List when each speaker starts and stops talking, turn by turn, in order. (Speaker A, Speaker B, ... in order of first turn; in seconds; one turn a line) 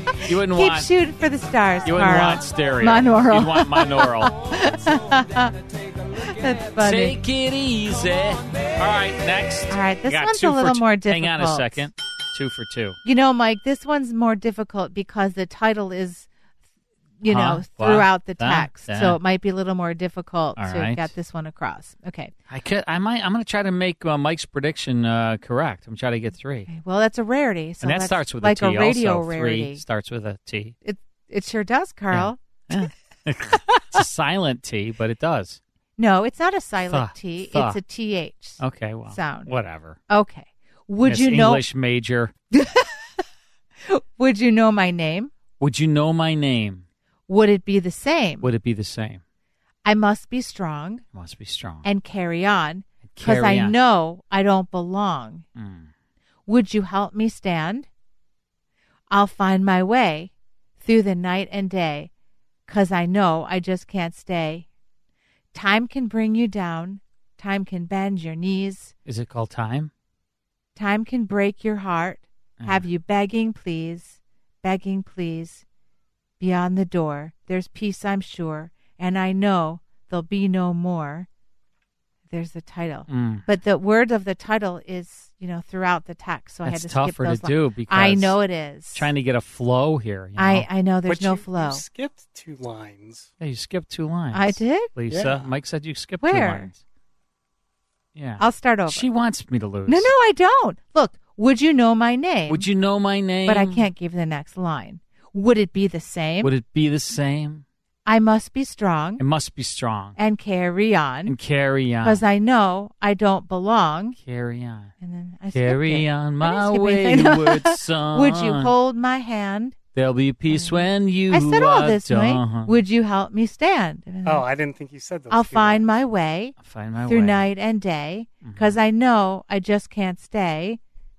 Speaker A: 0.2-0.9
Speaker B: 0.5-5.5
Speaker A: 1.8-4.3
Speaker B: 6.2-7.2
Speaker A: 6.8-13.0
Speaker B: 9.7-11.8
Speaker B: 13.0-16.3
Speaker B: 17.2-22.3
Speaker A: 17.3-19.2
Speaker A: 20.6-21.1
Speaker A: 22.5-26.7
Speaker B: 26.7-29.8
Speaker A: 27.8-30.8
Speaker B: 30.8-32.4
Speaker A: 32.1-35.6
Speaker B: 36.0-38.6
Speaker A: 36.9-37.8
Speaker A: 38.6-40.0
Speaker B: 39.1-39.5
Speaker B: 40.1-41.6
Speaker A: 41.0-42.3
Speaker B: 42.5-42.9
Speaker B: 43.9-45.3
Speaker A: 45.6-46.8
Speaker B: 47.3-48.4
Speaker A: 48.4-49.2
Speaker B: 49.8-51.0
Speaker A: 51.1-51.8
Speaker B: 51.8-55.5
Speaker A: 53.1-53.8
Speaker A: 55.6-55.9
Speaker B: 56.5-57.9
Speaker B: 59.1-62.1
Speaker B: 62.7-64.7
Speaker B: 65.5-68.9
Speaker A: 69.1-69.9
Speaker B: 70.8-75.6
Speaker A: 72.6-72.8
Speaker B: 76.4-81.3
Speaker B: 82.3-89.1
Speaker A: 83.1-83.5
Speaker A: 86.6-88.3
Speaker A: 88.9-90.7
Speaker B: 90.4-91.8
Speaker C: 91.1-93.3
Speaker A: 93.4-96.8
Speaker B: 94.3-94.9
Speaker C: 95.1-95.5
Speaker B: 96.2-96.7
Speaker A: 98.2-100.1
Speaker B: 98.4-99.1
Speaker B: 99.9-102.7
Speaker A: 102.5-103.9
Speaker B: 103.5-106.5
Speaker A: 106.4-107.6
Speaker B: 108.1-109.2
Speaker A: 109.2-110.2
Speaker B: 110.2-111.3
Speaker A: 111.2-112.2
Speaker B: 112.0-114.2
Speaker A: 114.2-114.9
Speaker B: 115.0-119.8
Speaker A: 115.5-118.7
Speaker A: 119.9-122.8
Speaker B: 120.5-124.5
Speaker C: 124.2-125.9
Speaker B: 125.3-126.5
Speaker A: 126.6-127.4
Speaker B: 127.1-130.8
Speaker A: 128.4-128.8